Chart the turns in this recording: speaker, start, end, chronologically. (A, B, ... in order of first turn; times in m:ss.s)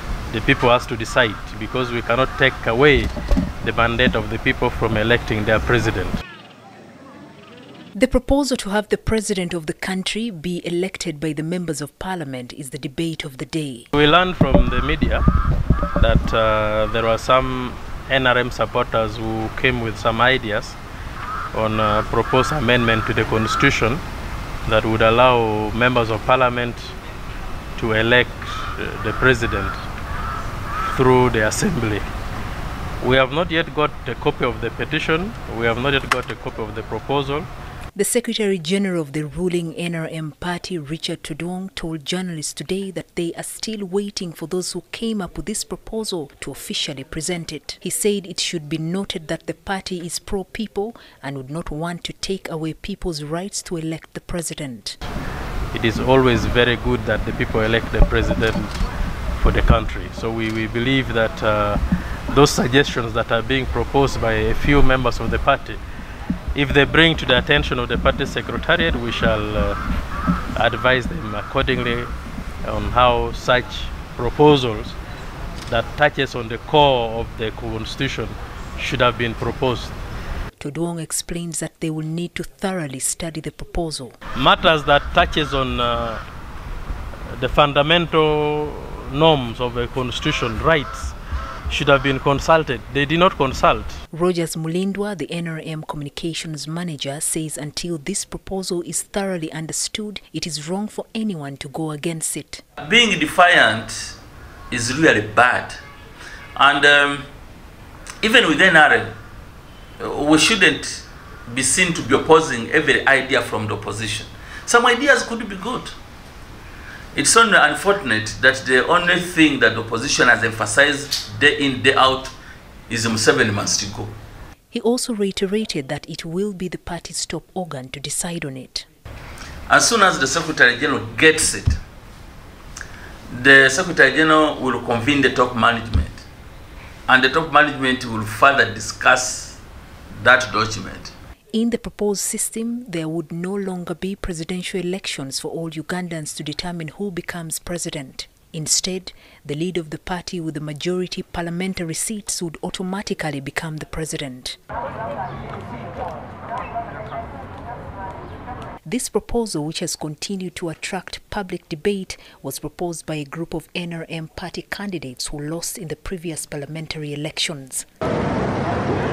0:00.3-0:03.1 A
0:03.6-0:06.2 A
0:07.9-0:13.9 B
0:13.9-0:15.2 A
0:16.0-0:20.8 A
0:21.5-0:24.0 A
0:24.6-0:26.9 A
0:27.8-0:29.8 A
0:30.9-0:32.0 A
0:33.0-0:37.5 A
0:37.9-0:55.0 B
0:55.7-0:58.8 A
0:59.4-1:05.8 A
1:06.5-1:09.8 A
1:10.5-1:12.1 A
1:12.6-1:15.0 A
1:15.7-1:20.0 A
1:20.6-1:24.2 B
1:24.4-1:26.2 A
1:27.3-1:31.1 A
1:31.7-1:34.0 A
1:34.1-1:42.6 B
1:42.8-1:44.1 C
1:44.7-1:45.8 C
1:46.6-1:47.3 C
1:48.2-1:49.2 C
1:50.0-1:55.9 C
1:57.2-2:02.3 C
2:02.9-2:04.1 C
2:04.7-2:08.8 B
2:09.7-2:11.8 C
2:13.3-2:16.2 C
2:17.1-2:19.6 C
2:20.2-2:21.1 C
2:21.5-2:34.6 B
2:38.8-2:47.8 B